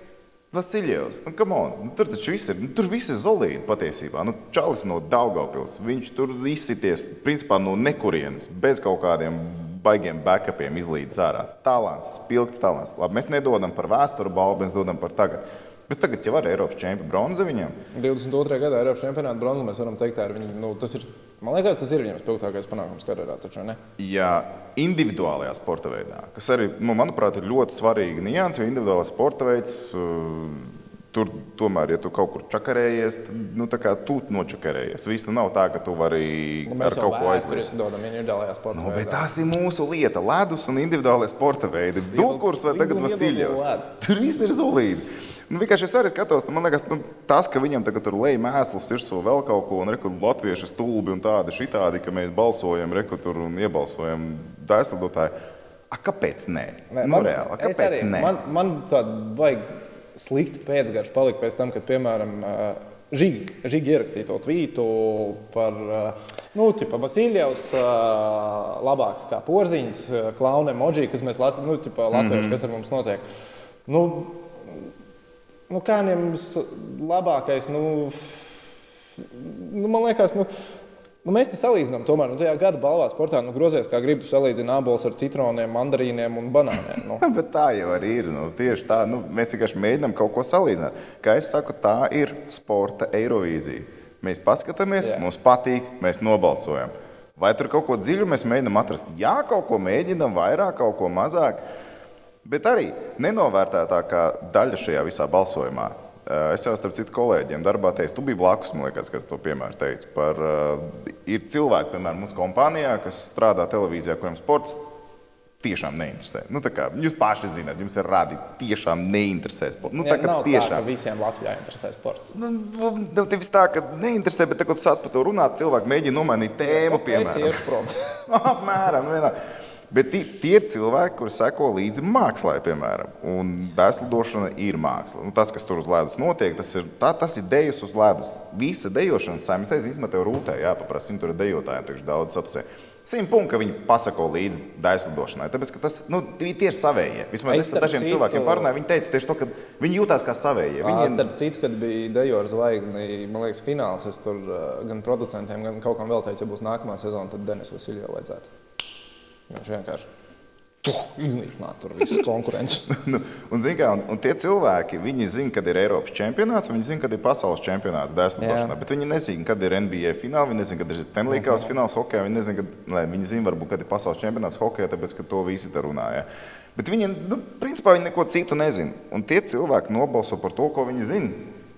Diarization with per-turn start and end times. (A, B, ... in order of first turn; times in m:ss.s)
0:00.5-0:17.8 A
0:17.9-0:23.8 B
0:24.0-0:37.7 A
0:36.6-0:39.2 B
0:38.7-0:55.3 A
0:41.9-0:43.9 B
0:55.9-0:58.3 A
0:56.9-1:13.2 B
1:12.1-1:12.6 A
1:13.9-1:14.4 B
1:15.7-1:18.3 B
1:19.3-1:20.5 B
1:21.2-1:27.2 B
1:27.2-1:41.6 A
1:42.4-1:54.8 A
1:55.6-2:00.8 A
2:00.0-2:02.3 B
2:02.3-2:09.3 A
2:06.6-2:08.2 B
2:09.9-2:31.3 A
2:27.5-2:28.7 B
2:30.8-2:38.5 B
2:39.5-2:40.0 B
2:40.8-2:42.9 B
2:42.9-3:01.4 A
2:48.4-2:48.8 B
2:51.3-2:51.7 B